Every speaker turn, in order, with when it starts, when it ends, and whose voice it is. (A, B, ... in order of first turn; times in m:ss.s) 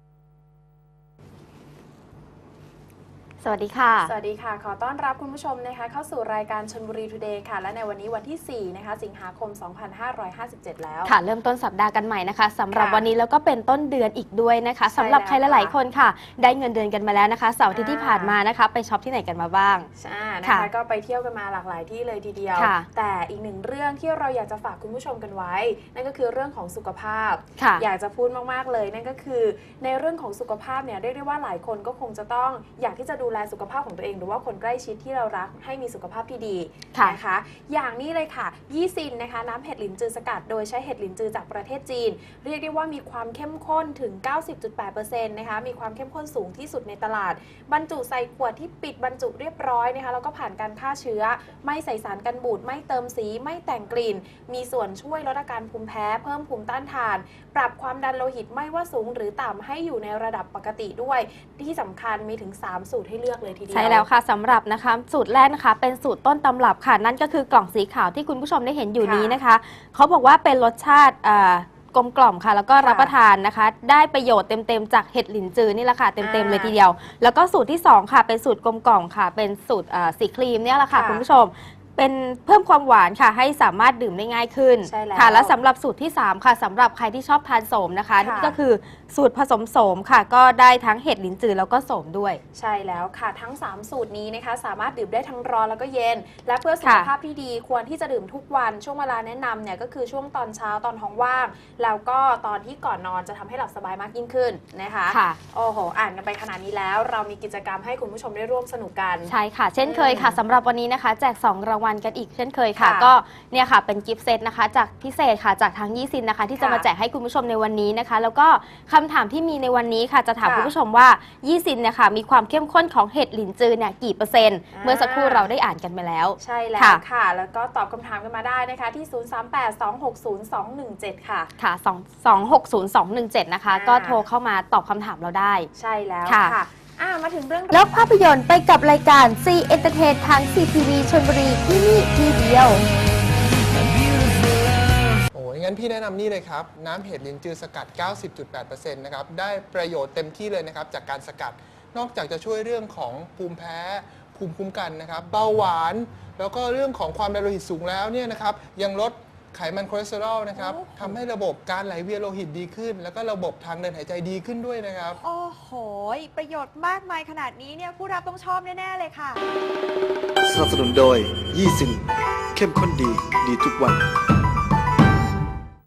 0:03.4-0:04.1 A
0:04.0-0:11.1 B
0:11.0-0:19.9 A
0:12.7-0:13.1 B
0:14.9-0:15.7 B
0:17.7-0:18.4 B
0:20.0-1:04.1 B
0:22.6-0:22.8 A
0:27.6-0:27.8 A
1:03.7-1:32.4 A
1:09.0-1:09.4 B
1:12.8-1:13.1 B
1:16.2-1:16.8 B
1:20.9-1:21.2 B
1:24.8-1:25.5 B
1:28.2-1:28.6 B
1:32.5-1:50.4 B
1:36.8-1:37.1 A
1:45.1-1:45.4 A
1:49.3-2:07.0 A
1:52.8-1:53.1 B
1:56.6-1:56.9 B
2:00.4-2:00.7 B
2:04.8-2:05.5 B
2:06.4-2:11.5 B
2:11.6-2:15.7 A
2:13.7-2:14.2 B
2:15.7-2:17.8 B
2:16.3-2:16.6 A
2:17.7-2:22.9 A
2:25.3-2:45.2 C
2:40.5-2:41.2 D
2:45.2-2:49.4 D
2:50.5-2:52.0 E
2:52.5-2:54.0 E